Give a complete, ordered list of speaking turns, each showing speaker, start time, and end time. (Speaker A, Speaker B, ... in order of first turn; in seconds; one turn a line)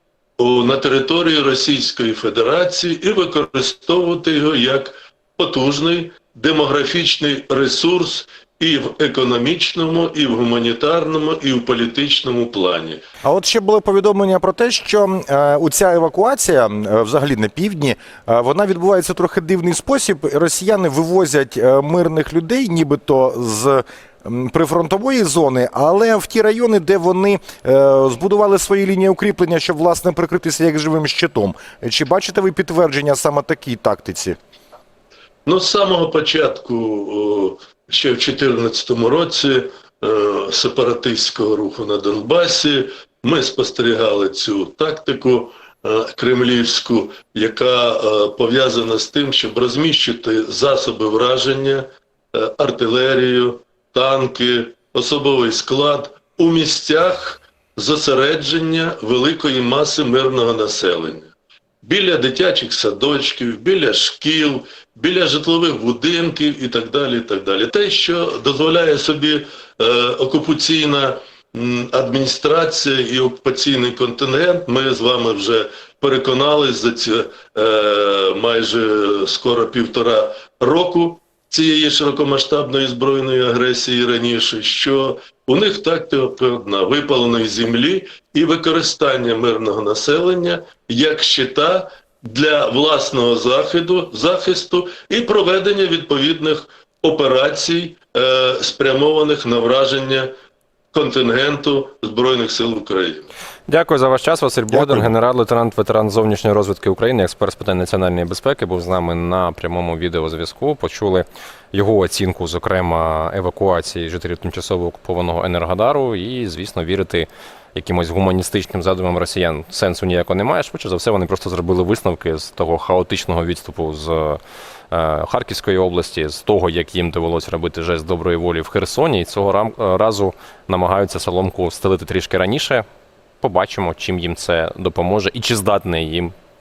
Speaker A: 0.4-13.0
Speaker B: 13.2-34.4
Speaker A: 35.5-100.3
Speaker A: 100.9-103.3
Speaker C: 103.7-124.4
Speaker B: 104.7-105.1
Speaker C: 124.9-132.8
Speaker C: 133.4-136.3